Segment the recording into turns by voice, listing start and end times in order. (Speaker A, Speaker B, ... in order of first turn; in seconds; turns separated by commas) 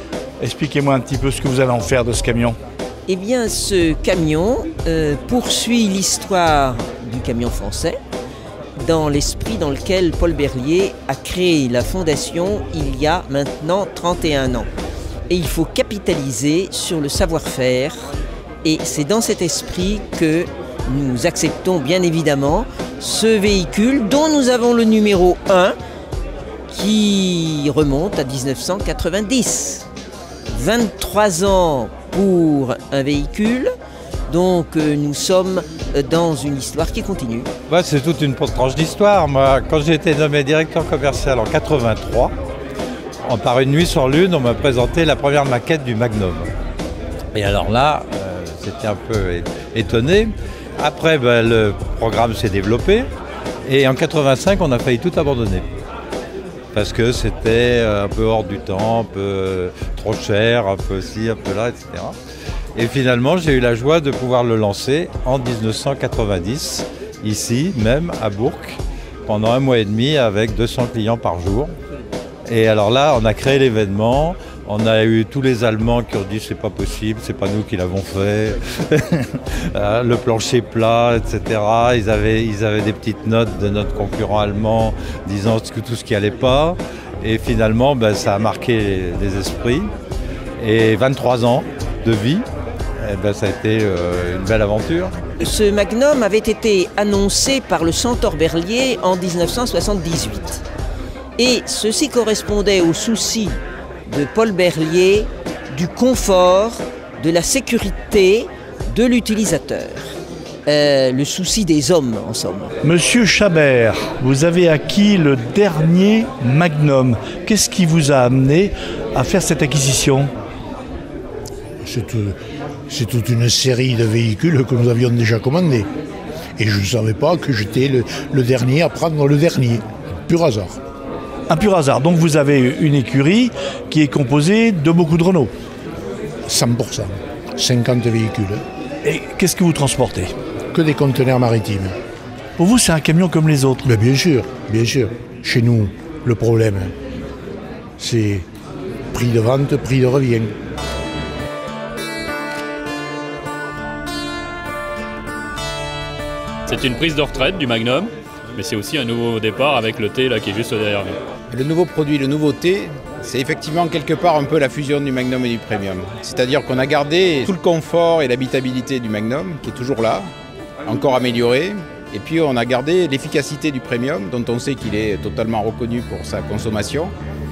Speaker A: 0.4-2.6, Speaker B: 3.1-8.0, Speaker B: 8.8-14.7, Speaker B: 15.3-25.8, Speaker B: 26.7-29.9, Speaker B: 30.5-33.7, Speaker B: 34.3-37.5, Speaker C: 37.7-42.3, Speaker C: 43.2-46.5, Speaker C: 47.3-53.1, Speaker C: 53.6-55.7, Speaker C: 56.7-62.2, Speaker C: 62.7-71.8, Speaker C: 72.5-89.9, Speaker C: 90.6-92.4, Speaker C: 93.0-95.1, Speaker B: 95.4-100.6, Speaker B: 101.4-110.2, Speaker B: 110.7-112.8, Speaker A: 112.8-120.3, Speaker D: 121.8-122.4, Speaker D: 122.9-125.9, Speaker D: 126.6-130.8, Speaker A: 131.5-135.5, Speaker D: 136.5-138.6, Speaker A: 139.0-140.3, Speaker D: 140.7-141.9, Speaker A: 142.6-143.9, Speaker D: 143.8-146.9, Speaker D: 148.0-148.5, Speaker D: 149.1-150.5, Speaker E: 156.7-161.2, Speaker F: 161.5-170.3, Speaker F: 170.9-177.1